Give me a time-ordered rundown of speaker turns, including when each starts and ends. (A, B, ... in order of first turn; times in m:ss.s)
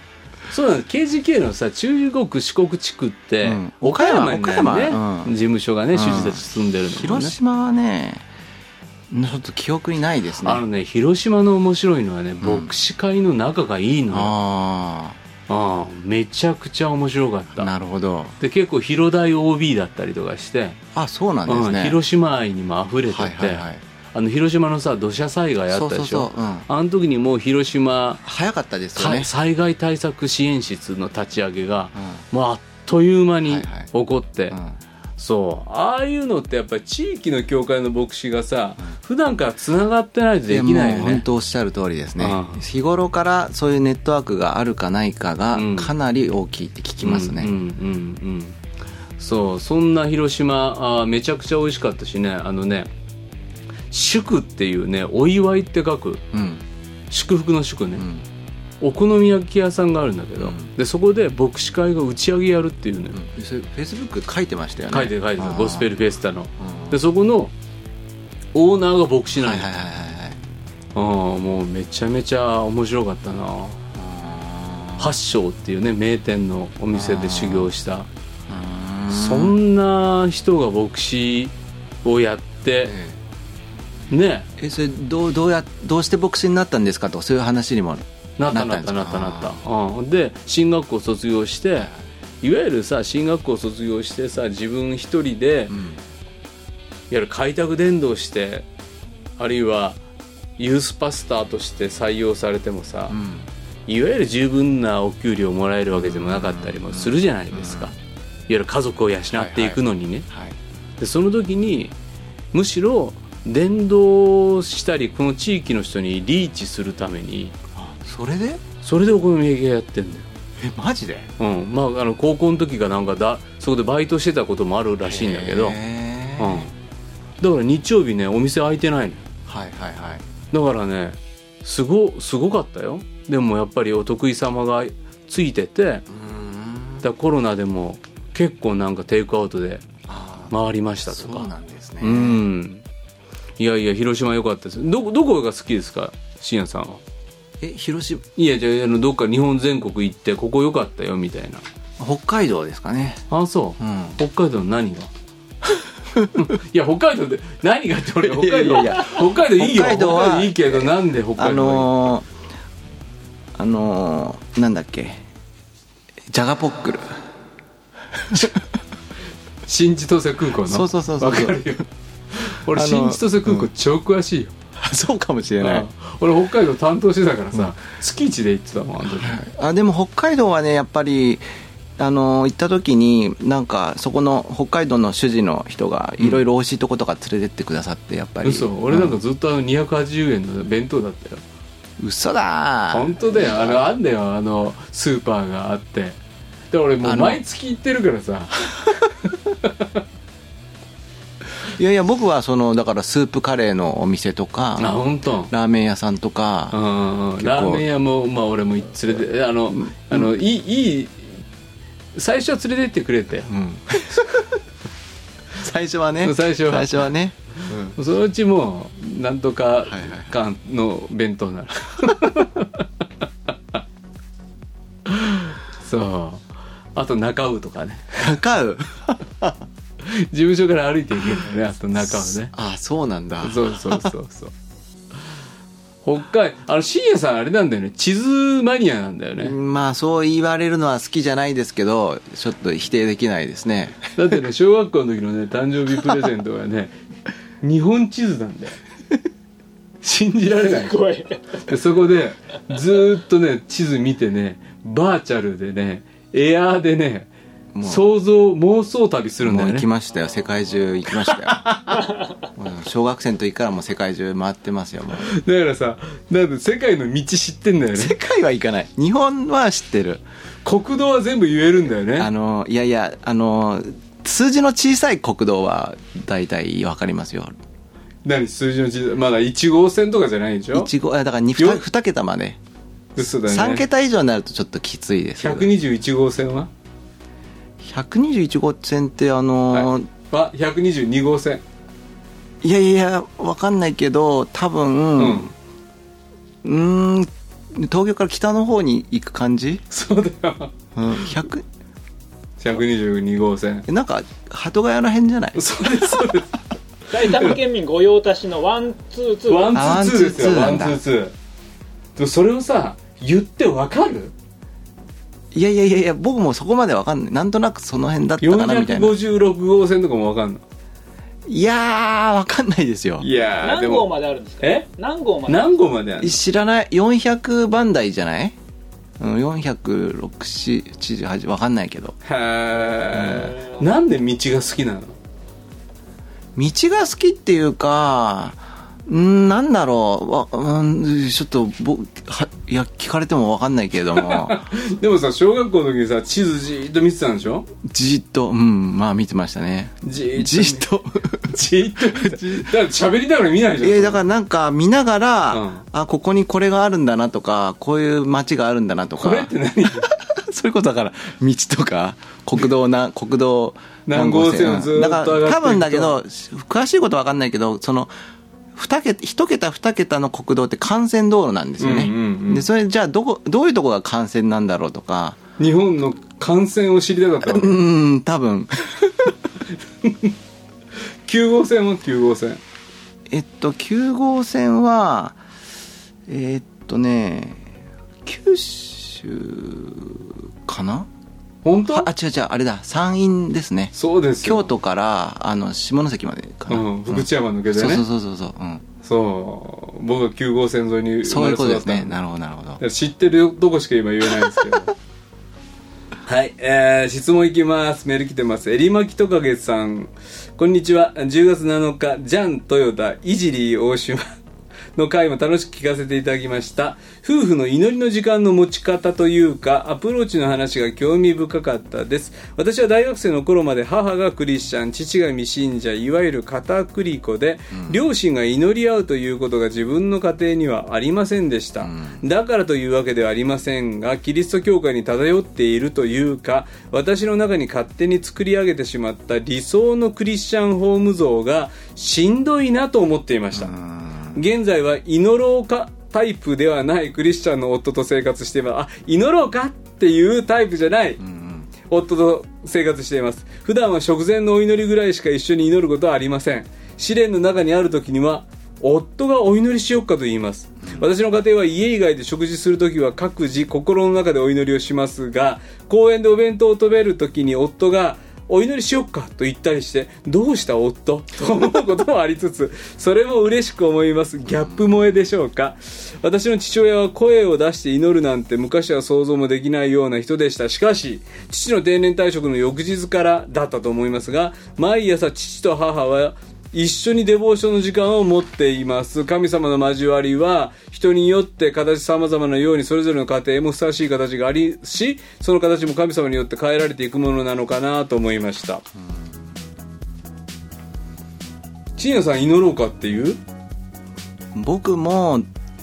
0:00.5-0:07.3 A
0:03.4-0:05.3 B
0:05.9-0:08.2 B
0:09.1-0:10.6 B
0:10.4-0:14.3 A
0:12.4-0:12.7 B
0:14.1-0:15.2 B
0:15.5-0:17.7 A
0:17.6-0:18.3 B
0:18.4-0:20.8 A
0:20.9-0:22.0 B
0:21.4-0:28.2 A
0:23.1-0:23.8 B
0:25.7-0:26.7 B
0:28.2-0:29.3 B
0:29.0-0:34.6 A
0:32.0-0:32.2 B
0:33.5-0:33.9 B
0:34.5-0:34.8 B
0:35.2-0:41.2 A
0:40.5-0:47.5 B
0:42.2-0:42.6 A
0:45.5-0:45.9 A
0:47.0-0:48.6 A
0:49.2-0:52.9 A
0:53.9-0:56.2 A
0:56.3-0:56.6 B
0:57.1-0:58.0 A
0:58.0-0:58.2 B
0:58.8-1:03.2 A
1:00.4-1:00.7 B
1:03.1-1:05.9 B
1:04.9-1:07.5 A
1:06.6-1:07.0 B
1:08.5-1:09.7 A
1:09.4-1:10.4 B
1:10.9-1:13.8 A
1:13.9-1:15.1 B
1:15.0-1:18.1 A
1:16.9-1:17.7 B
1:18.5-1:19.6 B
1:19.1-1:23.0 A
1:22.8-1:23.2 B
1:24.1-1:24.5 A
1:24.6-1:29.6 B
1:28.4-1:31.9 A
1:32.4-1:35.8 A
1:35.7-1:36.0 B
1:37.1-1:38.6 A
1:39.4-1:40.0 A
1:40.6-1:43.2 A
1:43.1-1:43.5 B
1:43.9-1:47.9 A
1:45.9-1:47.9 B
1:48.5-1:50.3 A
1:49.3-1:50.6 B
1:51.0-1:51.9 A
1:52.5-1:57.6 A
1:57.7-1:58.6 B
1:58.8-2:00.2 A
2:00.6-2:01.3 B
2:01.4-2:05.8 A
2:05.0-2:06.7 B
2:06.4-2:06.7 A
2:07.4-2:09.2 A
2:09.5-2:10.2 B
2:10.5-2:16.0 A
2:16.1-2:17.0 B
2:17.0-2:19.9 A
2:20.1-2:20.5 B
2:20.5-2:21.5 A
2:21.1-2:22.4 B
2:22.0-2:22.8 A
2:23.6-2:27.0 A
2:27.6-2:28.3 B
2:28.4-2:31.6 A
2:32.0-2:33.2 B
2:33.3-2:35.1 A
2:33.8-2:34.2 B
2:35.7-2:36.3 B
2:36.3-2:41.9 A
2:38.2-2:42.3 B
2:43.6-2:45.2 B
2:46.3-2:47.2 B
2:48.2-2:48.6 B
2:49.6-2:54.5 A
2:50.6-2:51.8 B
2:52.7-2:53.7 B
2:54.8-2:55.9 B
2:55.6-2:59.4 A
2:59.1-3:01.4 B
3:02.0-3:09.1 B
3:08.4-3:11.4 A
3:12.0-3:13.8 B
3:12.9-3:16.2 A
3:16.7-3:18.9 A
3:17.0-3:17.4 B
3:19.5-3:19.9 A
3:21.6-3:25.0 B
3:24.8-3:25.5 A
3:25.5-3:26.8 B
3:26.7-3:31.4 A
3:27.4-3:27.8 B
3:29.7-3:30.3 B
3:32.1-3:33.5 A
3:33.5-3:34.4 B
3:35.6-3:38.0 B
3:36.2-3:37.1 A
3:37.7-3:42.8 A
3:39.8-3:40.4 B
3:45.1-3:48.4 A
3:48.2-3:49.6 B
3:50.0-3:52.5 A
3:52.0-3:54.1 B
3:53.4-3:54.5 A
3:56.0-3:59.5 A
3:59.4-4:04.1 B
4:04.2-4:07.0 A
4:07.6-4:08.8 A
4:10.0-4:11.0 A
4:10.5-4:11.6 C
4:11.6-4:17.3 A
4:17.7-4:18.0 B
4:17.8-4:19.9 A
4:19.4-4:22.0 B
4:21.6-4:21.9 A
4:22.5-4:25.3 B
4:25.2-4:28.1 A
4:27.9-4:30.2 B
4:30.6-4:32.3 A
4:32.2-4:37.5 B
4:38.2-4:40.9 A
4:40.7-4:42.6 B
4:43.2-4:43.8 A
4:43.5-4:45.7 B
4:45.4-4:46.7 A
4:47.8-4:50.1 B
4:49.7-4:51.6 A
4:52.6-4:55.5 B
4:55.2-4:55.5 A
4:56.6-4:59.8 B
4:59.9-5:00.7 A
5:00.9-5:01.6 B
5:02.6-5:03.9 A
5:03.9-5:06.4 B
5:05.5-5:07.6 A
5:07.1-5:10.0 C
5:09.5-5:11.3 A
5:09.7-5:11.0 B
5:12.2-5:14.3 A
5:15.5-5:19.2 B
5:18.4-5:20.6 A
5:21.5-5:23.2 B
5:23.2-5:24.1 A
5:23.6-5:25.7 C
5:24.6-5:24.9 A
5:25.4-5:26.4 A
5:26.2-5:28.6 B
5:29.2-5:32.2 B
5:32.2-5:35.1 A
5:33.2-5:33.4 B
5:36.6-5:44.7 B
5:44.1-5:47.7 A
5:47.8-5:52.7 B
5:50.0-5:50.8 A
5:51.4-5:54.2 A
5:53.8-6:08.1 B
5:55.5-5:55.8 A
5:59.2-6:00.1 A
6:04.0-6:06.2 A
6:08.7-6:15.4 B
6:11.8-6:12.7 A
6:15.6-6:17.8 A
6:17.4-6:19.4 B
6:20.0-6:20.3 A
6:21.2-6:22.6 A
6:23.3-6:25.4 B
6:26.3-6:27.7 B
6:28.2-6:31.1 B
6:31.6-6:32.1 A
6:31.9-6:38.8 B
6:33.9-6:34.7 A
6:36.7-6:38.0 A
6:39.0-6:42.2 A
6:41.2-6:42.8 B
6:42.8-6:44.9 A
6:46.2-6:54.3 A
6:54.9-7:23.8 A
7:07.7-7:08.0 B
7:11.8-7:12.2 B
7:23.5-7:24.4 B
7:24.3-7:31.2 A
7:31.2-7:31.7 B
7:31.8-8:18.8 A
8:22.0-8:23.4 A
8:24.5-8:25.5 B